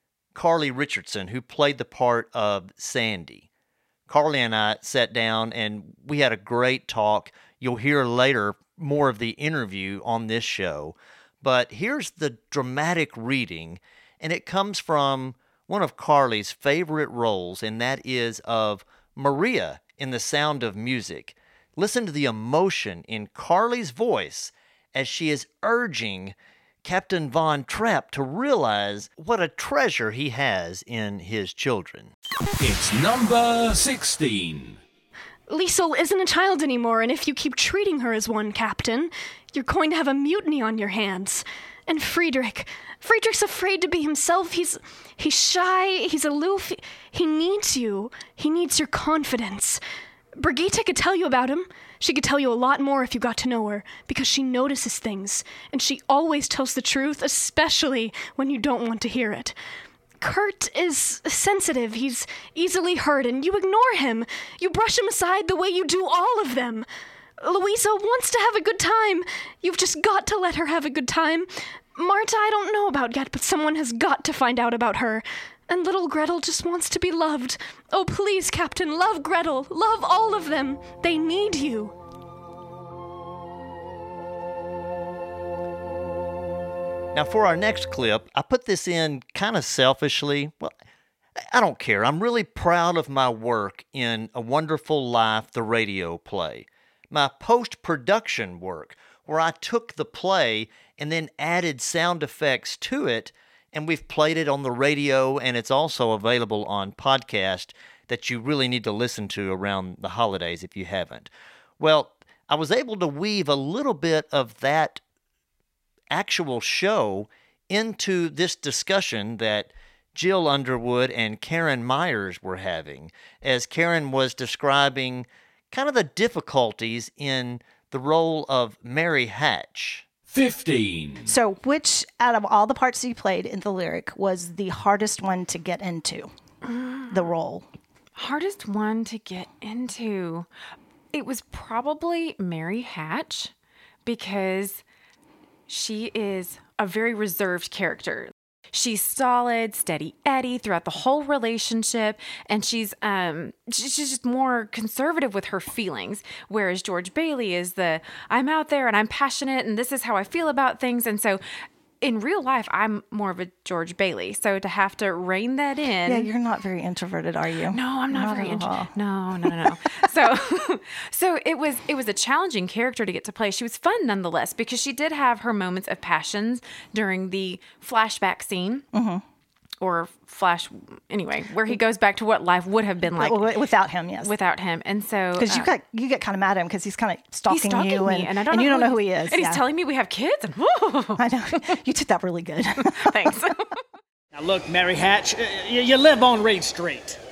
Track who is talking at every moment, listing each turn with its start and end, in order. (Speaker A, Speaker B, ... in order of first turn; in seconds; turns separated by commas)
Speaker A: 0.3-3.5, Speaker A: 4.1-32.1, Speaker B: 32.6-34.8, Speaker C: 35.5-49.8, Speaker C: 50.4-59.6, Speaker C: 60.2-66.9, Speaker C: 67.4-82.0, Speaker A: 87.1-90.8, Speaker A: 91.5-111.3, Speaker A: 111.8-115.0, Speaker A: 116.1-130.1, Speaker B: 130.3-131.3, Speaker D: 131.2-136.3, Speaker E: 136.7-137.1, Speaker D: 137.1-137.7, Speaker E: 138.2-140.5, Speaker E: 141.1-143.5, Speaker E: 144.1-144.8, Speaker E: 145.7-161.4, Speaker E: 162.0-166.3, Speaker D: 166.1-168.9, Speaker E: 167.7-178.8, Speaker D: 169.4-169.8, Speaker D: 178.9-179.2, Speaker E: 179.8-183.5, Speaker D: 183.1-184.3, Speaker E: 184.2-185.7, Speaker D: 185.4-189.6, Speaker E: 187.5-191.2, Speaker D: 191.2-193.4, Speaker E: 192.9-193.7, Speaker F: 194.3-197.2